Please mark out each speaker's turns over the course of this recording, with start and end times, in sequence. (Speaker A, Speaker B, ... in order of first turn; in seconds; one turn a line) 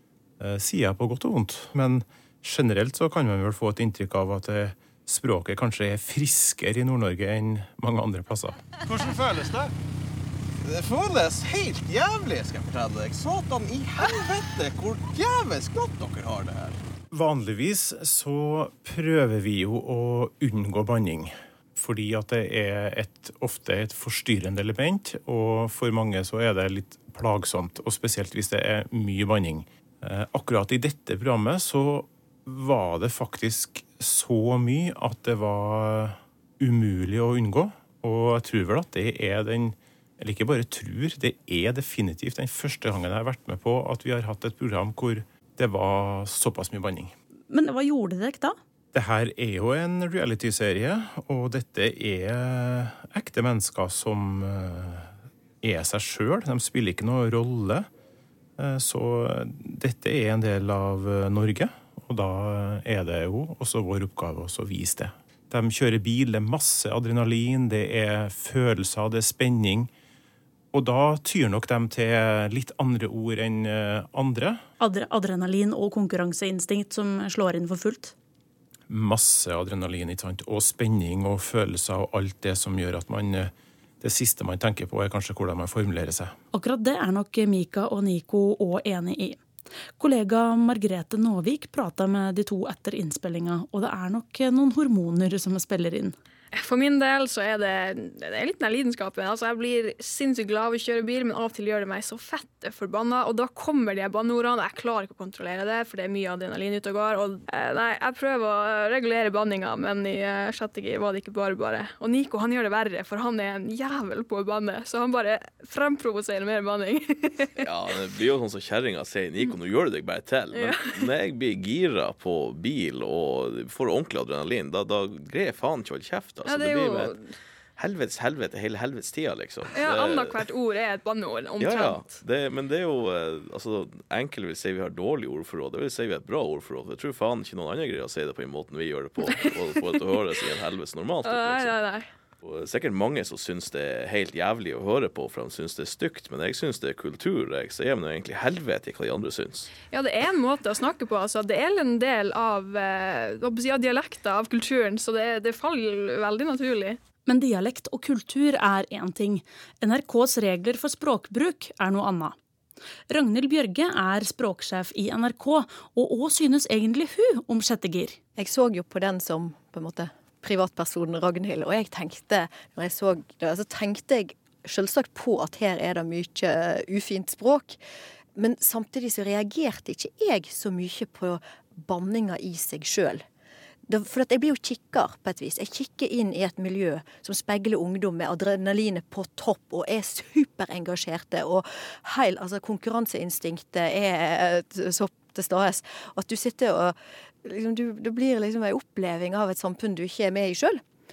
Speaker A: 0.4-8.6
Speaker B: 8.8-9.7
Speaker B: 10.6-16.8
Speaker A: 17.1-47.1
Speaker C: 47.5-48.6
Speaker A: 48.9-57.9
Speaker A: 58.6-69.9
Speaker A: 70.7-74.6
Speaker C: 74.8-78.1
Speaker A: 78.9-86.3
Speaker C: 86.5-89.4
Speaker C: 90.0-96.1
Speaker D: 96.5-117.6
Speaker E: 117.6-127.2
Speaker D: 120.5-121.1
Speaker D: 126.5-127.2
Speaker E: 127.8-130.4
Speaker D: 129.7-132.2
Speaker E: 131.6-141.8
Speaker D: 139.2-140.0
Speaker D: 141.2-142.1
Speaker E: 142.4-149.7
Speaker D: 149.9-157.0
Speaker C: 157.2-162.4
Speaker C: 163.1-168.2
Speaker F: 168.4-177.8
Speaker F: 178.3-183.2
Speaker F: 183.9-200.8